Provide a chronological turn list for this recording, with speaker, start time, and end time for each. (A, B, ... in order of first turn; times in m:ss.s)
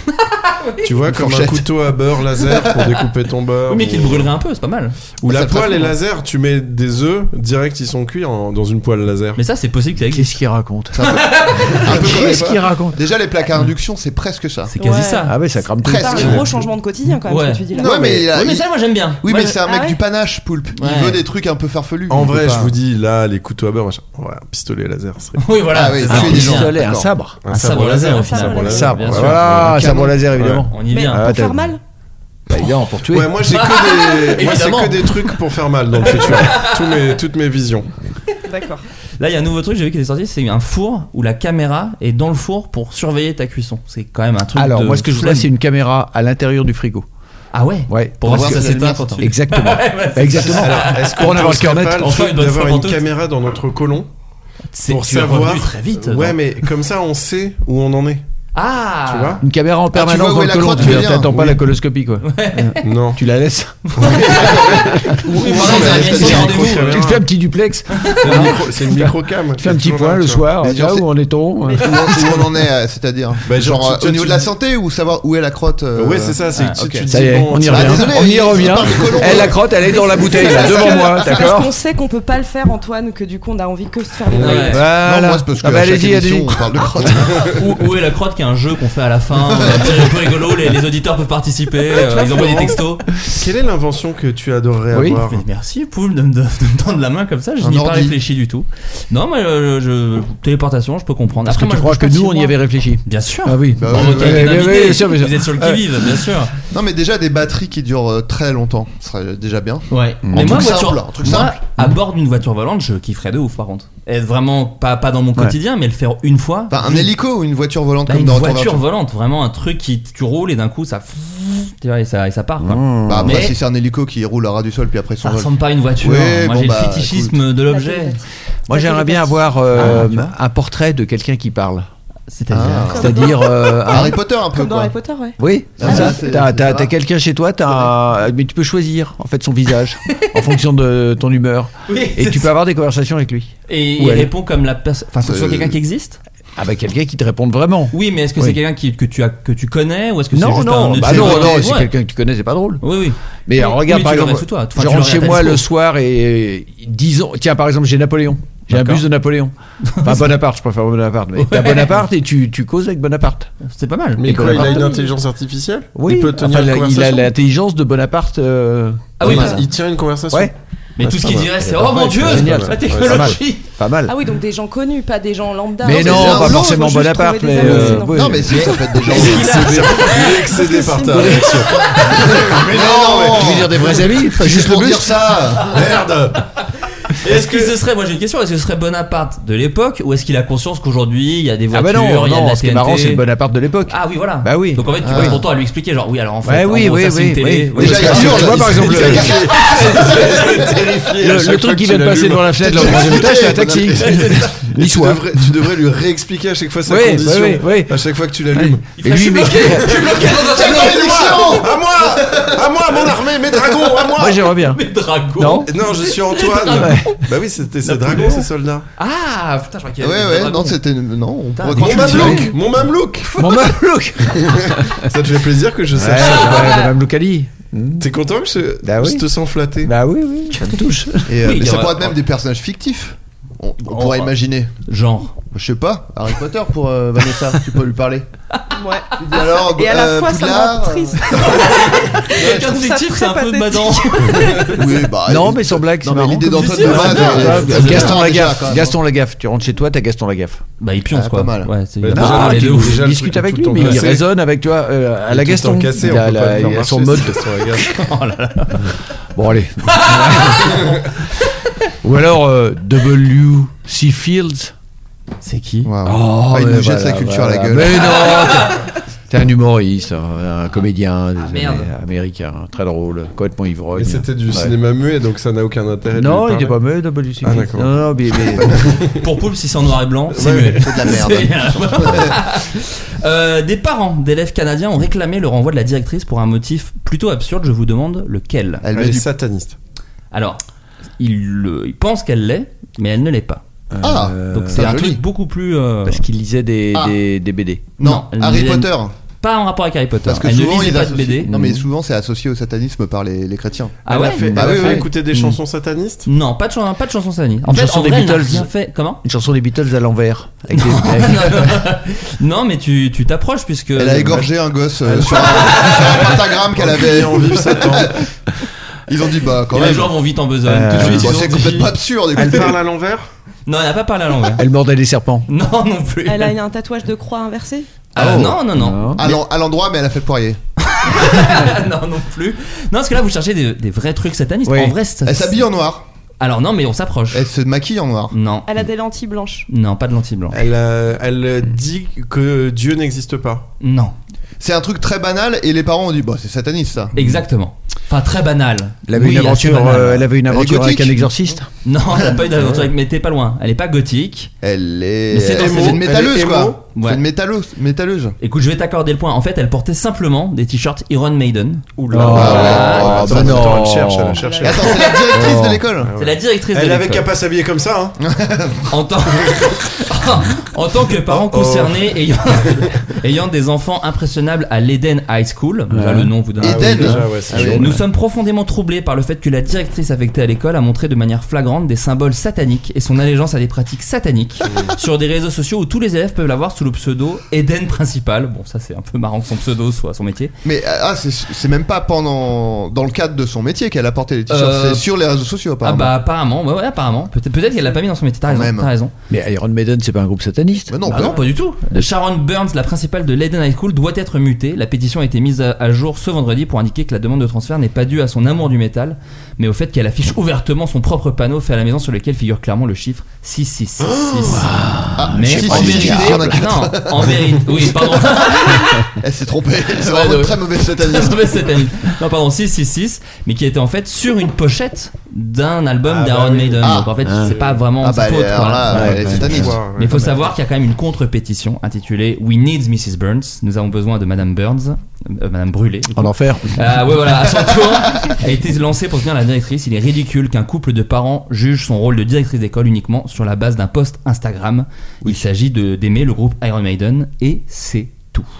0:00.1-0:00.8 A
0:00.8-0:04.3 B
0:01.0-0:01.7 C
0:03.7-0:05.0 A
0:05.2-0:09.4 B
0:05.3-0:05.9 C
0:09.4-0:10.4 A
0:10.1-0:11.0 D
0:10.9-0:14.7 C
0:11.0-0:12.3 A
0:11.7-0:13.0 D
0:14.7-0:15.4 A
0:14.7-0:18.2 E
0:15.2-0:16.4 D
0:15.8-0:16.5 C
0:16.2-0:16.7 B
0:17.2-0:19.6 A
0:17.7-0:22.8 C
0:19.6-0:20.0 E
0:20.8-0:21.2 A
0:22.1-0:25.5 B
0:25.4-0:26.8 A
0:25.7-0:27.1 C
0:26.0-0:27.4 D
0:27.4-0:30.7 B
0:27.5-0:29.7 A
0:28.1-0:29.1 E
0:28.6-0:31.8 D
0:29.6-0:30.3 C
0:30.7-0:31.3 A
0:30.8-0:31.8 E
0:32.5-0:33.4 D
0:33.1-0:37.9 B
0:33.5-0:35.3 A
0:36.0-0:37.0 A
0:38.5-0:38.8 E
0:39.2-0:45.5 A
0:44.5-0:47.1 D
0:47.5-0:53.0 A
0:47.9-0:52.2 D
0:48.3-0:49.3 C
0:50.4-0:54.1 B
0:54.7-0:56.4 A
0:54.9-0:58.2 B
0:58.5-0:59.4 A
0:59.1-0:59.4 B
0:59.4-1:12.3 D
0:59.9-1:01.6 C
1:02.2-1:02.8 A
1:02.8-1:03.2 B
1:03.9-1:04.7 A
1:04.0-1:04.5 B
1:04.3-1:06.7 C
1:05.3-1:07.1 A
1:05.3-1:07.2 B
1:08.0-1:08.5 A
1:08.2-1:10.5 B
1:10.6-1:11.0 C
1:11.8-1:21.3 C
1:13.4-1:14.5 B
1:16.0-1:19.4 B
1:16.5-1:16.8 A
1:17.1-1:21.7 D
1:19.6-1:24.9 E
1:24.3-1:24.6 B
1:24.3-1:24.8 A
1:24.4-1:27.5 D
1:24.9-1:27.6 C
1:27.5-1:33.0 A
1:31.9-1:35.4 B
1:34.9-1:35.2 D
1:35.3-1:46.5 A
1:37.6-1:38.1 C
1:41.4-1:46.3 D
1:43.8-1:44.6 C
1:46.7-1:51.6 C
1:49.9-1:57.1 A
1:50.2-1:50.8 D
1:56.7-1:58.8 C
1:58.1-2:03.6 A
2:02.6-2:03.5 D
2:03.0-2:07.4 C
2:05.2-2:08.2 A
2:07.6-2:09.8 E
2:08.7-2:11.9 D
2:09.7-2:10.3 A
2:12.3-2:13.0 A
2:12.5-2:14.9 C
2:12.9-2:16.2 E
2:12.9-2:14.2 D
2:15.4-2:24.3 D
2:15.8-2:16.9 C
2:21.9-2:22.5 A
2:23.7-2:26.2 A
2:25.2-2:25.8 C
2:26.6-2:28.6 D
2:27.9-2:31.9 A
2:30.3-2:32.8 D
2:31.1-2:31.3 C
2:32.8-2:35.6 A
2:33.5-2:43.5 D
2:38.7-2:39.0 A
2:39.8-2:40.3 A
2:41.4-2:42.0 A
2:43.6-2:44.4 A
2:44.2-2:47.3 B
2:44.2-2:45.0 D
2:44.5-2:45.1 E
2:45.9-2:49.7 D
2:49.2-2:49.6 A
2:49.2-2:50.5 B
2:51.0-2:53.6 A
2:51.0-2:51.5 B
2:51.1-2:54.2 D
2:52.2-2:53.4 B
2:54.1-2:58.9 E
2:55.8-2:58.5 D
2:55.9-2:56.8 C
2:58.0-2:59.7 C
2:58.5-3:00.6 A
2:59.0-3:04.1 B
2:59.9-3:01.5 E
3:01.1-3:01.6 D
3:01.3-3:02.2 A
3:02.2-3:05.8 C
3:02.7-3:05.4 D
3:05.6-3:06.5 B
3:07.0-3:13.2 A
3:07.2-3:07.7 B
3:11.7-3:15.4 D
3:13.9-3:20.7 A
3:15.0-3:15.4 C
3:16.4-3:19.4 D
3:17.8-3:20.6 C
3:18.0-3:23.3 B
3:21.2-3:25.4 D
3:22.6-3:24.4 C
3:24.0-3:28.8 B
3:26.8-3:30.5 D
3:29.0-3:31.6 A
3:29.9-3:34.5 B
3:30.5-3:33.6 C
3:34.1-3:34.8 D
3:34.7-3:37.2 A
3:35.3-3:35.7 D
3:35.6-3:38.8 B
3:36.7-3:37.2 D
3:37.8-3:40.8 A
3:40.0-3:42.5 C
3:41.6-3:42.5 A
3:41.8-3:43.7 B
3:42.0-3:42.5 D
3:43.4-3:45.1 D
3:44.3-3:46.9 B
3:45.9-3:48.1 D
3:46.2-3:46.9 A
3:48.0-3:49.9 B
3:48.8-3:49.2 D
3:49.8-3:51.4 D
3:51.3-3:54.7 C
3:51.4-3:52.1 A
3:53.9-3:54.3 A
3:54.9-3:55.3 A
3:55.5-3:58.2 C
3:58.8-4:04.8 E
3:59.2-4:01.5 C
4:01.3-4:04.8 A
4:04.7-4:09.0 C
4:05.2-4:10.6 D
4:06.6-4:08.2 A
4:10.8-4:13.0 A
4:11.1-4:11.7 C
4:12.0-4:14.3 B
4:12.1-4:17.6 D
4:13.8-4:14.0 A
4:15.3-4:18.0 B
4:17.9-4:18.9 A
4:19.3-4:21.1 D
4:19.9-4:21.5 A
4:22.0-4:24.7 D
4:25.4-4:25.9 A
4:25.8-4:28.3 C
4:26.0-4:34.8 D
4:28.2-4:28.8 A
4:31.4-4:31.9 A
4:33.9-4:36.8 B
4:36.1-4:39.0 D
4:37.4-4:39.1 B
4:38.6-4:38.9 C
4:39.2-4:48.8 A
4:40.3-4:40.9 B
4:40.5-4:42.4 C
4:48.8-4:49.3 C
4:48.9-4:49.8 B
4:50.3-4:50.6 A
4:51.2-4:53.6 A
4:53.9-4:54.9 D
4:54.0-4:55.2 C
4:54.5-4:56.2 A
4:56.0-4:57.8 D
4:58.0-4:59.1 C
4:58.0-5:01.5 A
5:00.2-5:05.1 C
5:01.5-5:01.8 D
5:04.0-5:05.0 A
5:04.1-5:06.3 B
5:04.7-5:05.6 D
5:06.2-5:09.2 A
5:07.6-5:08.7 D
5:09.2-5:11.8 D
5:10.7-5:14.4 A
5:14.0-5:18.2 C
5:15.1-5:18.2 B
5:15.5-5:16.2 A
5:19.1-5:20.2 C
5:19.7-5:21.9 A
5:20.6-5:21.4 D
5:20.9-5:22.8 C
5:22.3-5:23.3 B
5:23.6-5:24.6 A
5:24.6-5:25.5 D
5:25.5-5:26.6 A
5:26.2-5:28.0 E
5:28.1-5:29.2 A
5:28.2-5:29.4 D
5:29.2-5:30.6 C
5:30.8-5:35.6 A
5:34.6-5:35.0 D
5:35.2-5:36.0 C
5:36.4-5:37.4 A
5:37.3-5:38.3 C
5:38.3-5:38.7 A
5:38.6-5:39.7 E
5:39.7-5:40.6 A
5:40.5-5:43.7 B
5:43.8-5:44.1 A
5:44.6-5:47.1 C
5:47.1-5:50.3 A
5:49.1-5:51.7 D
5:50.5-5:51.3 C
5:51.8-5:54.5 A
5:54.6-5:58.4 C
5:55.3-5:56.0 A
5:55.5-5:56.8 B
5:56.9-5:57.2 A
5:58.4-6:03.2 A
6:02.0-6:08.2 B
6:02.1-6:04.4 D
6:02.2-6:04.0 C
6:04.3-6:05.1 E
6:04.6-6:06.1 C
6:05.3-6:05.8 D
6:06.2-6:07.3 A
6:08.2-6:08.9 C
6:08.9-6:30.5 A
6:11.2-6:12.1 B
6:15.9-6:18.0 D
6:16.6-6:17.9 C
6:16.6-6:17.9 B
6:24.6-6:24.9 B
6:30.6-6:36.1 C
6:34.5-6:35.1 A
6:35.8-6:39.1 A
6:38.5-6:38.9 C
6:39.3-6:41.3 D
6:40.9-6:41.4 C
6:41.1-6:54.7 A
6:54.0-6:54.7 B
6:54.5-6:56.7 D
6:55.2-6:57.4 C
6:55.3-6:59.1 A
6:58.8-7:01.6 C
7:00.0-7:28.5 A
7:06.0-7:07.8 B
7:06.8-7:07.1 C
7:07.2-7:07.6 D
7:08.0-7:09.8 C
7:08.9-7:09.7 D
7:08.9-7:10.5 B
7:16.1-7:17.1 D